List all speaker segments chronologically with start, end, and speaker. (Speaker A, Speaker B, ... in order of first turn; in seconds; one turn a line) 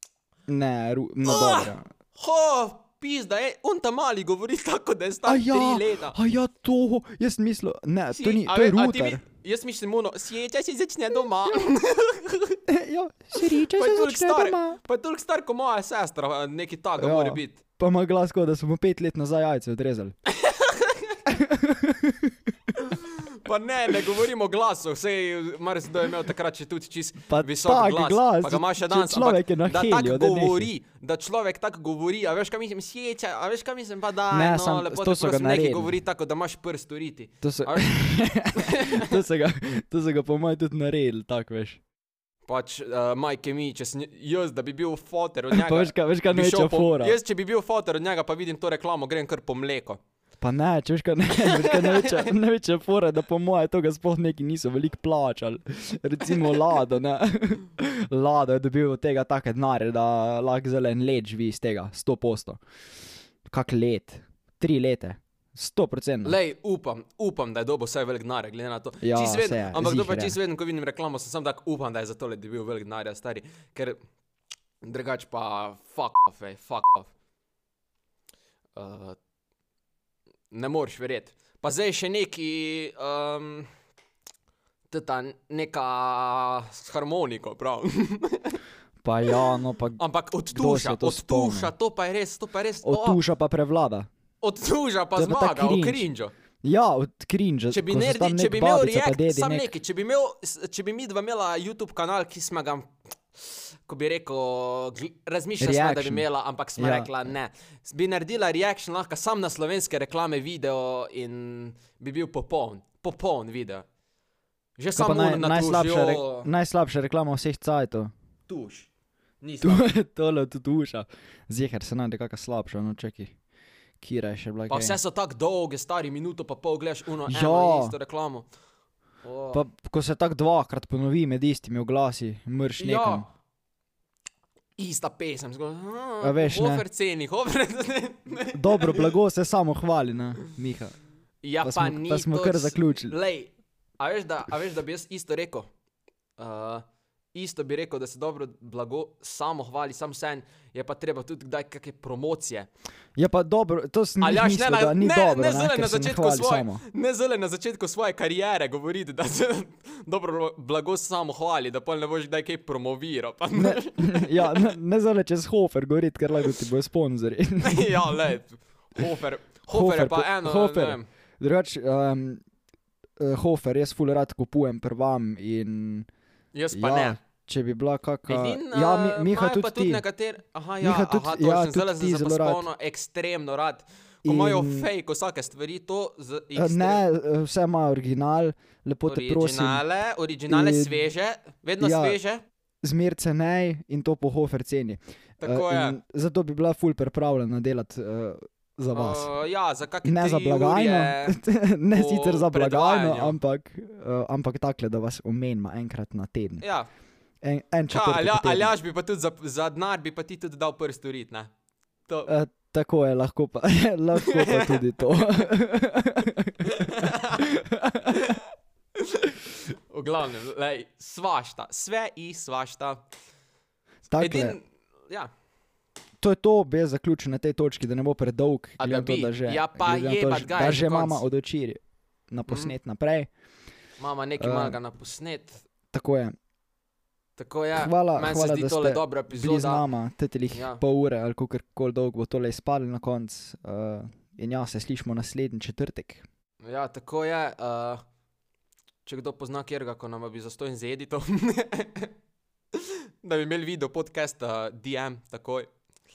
Speaker A: 0.5-1.9
Speaker B: 1.2-6.2
Speaker A: 5.2-9.2
Speaker B: 8.1-12.6
Speaker A: 12.7-14.8
Speaker B: 13.7-17.6
Speaker A: 17.0-20.1
Speaker B: 20.3-21.2
Speaker A: 21.3-22.3
Speaker B: 22.9-37.9
Speaker A: 27.3-30.7
Speaker A: 34.3-35.9
Speaker A: 37.4-41.8
Speaker B: 38.5-39.1
Speaker B: 42.5-50.0
Speaker A: 45.5-47.2
Speaker A: 50.4-62.6
Speaker B: 51.6-52.3
Speaker A: 63.5-66.4
Speaker B: 66.2-74.0
Speaker A: 69.0-70.3
Speaker B: 74.8-77.1
Speaker B: 78.8-79.2
Speaker B: 80.5-83.7
Speaker B: 84.9-88.6
Speaker A: 89.0-90.0
Speaker B: 90.0-93.2
Speaker A: 90.5-91.7
Speaker A: 92.8-94.1
Speaker B: 94.4-96.3
Speaker A: 95.2-96.1
Speaker A: 96.6-99.7
Speaker B: 97.7-113.8
Speaker A: 105.6-107.3
Speaker B: 114.8-116.5
Speaker A: 114.9-118.1
Speaker B: 118.5-118.9
Speaker B: 119.4-119.9
Speaker A: 119.6-123.3
Speaker A: 124.0-125.0
Speaker B: 124.7-128.4
Speaker A: 127.2-128.0
Speaker B: 129.2-129.6
Speaker A: 129.5-133.2
Speaker B: 132.8-133.3
Speaker B: 134.8-139.1
Speaker A: 136.2-136.8
Speaker A: 138.5-140.9
Speaker B: 141.4-145.7
Speaker A: 141.6-143.1
Speaker B: 146.4-152.7
Speaker A: 153.2-156.8
Speaker B: 154.2-164.7
Speaker A: 163.5-168.3
Speaker B: 167.6-171.1
Speaker A: 169.7-172.4
Speaker A: 173.2-176.1
Speaker B: 176.5-177.2
Speaker A: 176.7-180.0
Speaker B: 178.3-187.0
Speaker A: 180.8-182.7
Speaker A: 184.2-184.9
Speaker A: 186.5-189.8
Speaker B: 189.1-192.4
Speaker A: 190.5-191.0
Speaker A: 191.8-192.2
Speaker A: 192.8-199.3
Speaker B: 195.4-196.0
Speaker B: 198.9-201.4
Speaker A: 200.0-206.6
Speaker B: 201.9-203.3
Speaker B: 206.6-206.9
Speaker A: 207.4-208.7
Speaker B: 207.9-211.5
Speaker B: 212.1-212.3
Speaker A: 212.2-218.1
Speaker B: 214.2-214.8
Speaker B: 216.7-217.5
Speaker B: 218.1-218.4
Speaker B: 219.9-223.0
Speaker A: 224.1-224.6
Speaker B: 224.2-225.3
Speaker A: 226.2-233.3
Speaker B: 228.8-231.2
Speaker B: 232.5-232.7
Speaker B: 234.0-235.6
Speaker A: 234.4-234.8
Speaker A: 235.9-236.3
Speaker B: 237.4-239.8
Speaker A: 237.8-246.2
Speaker B: 240.5-240.8
Speaker B: 246.6-248.0
Speaker B: 249.0-252.1
Speaker B: 252.8-255.7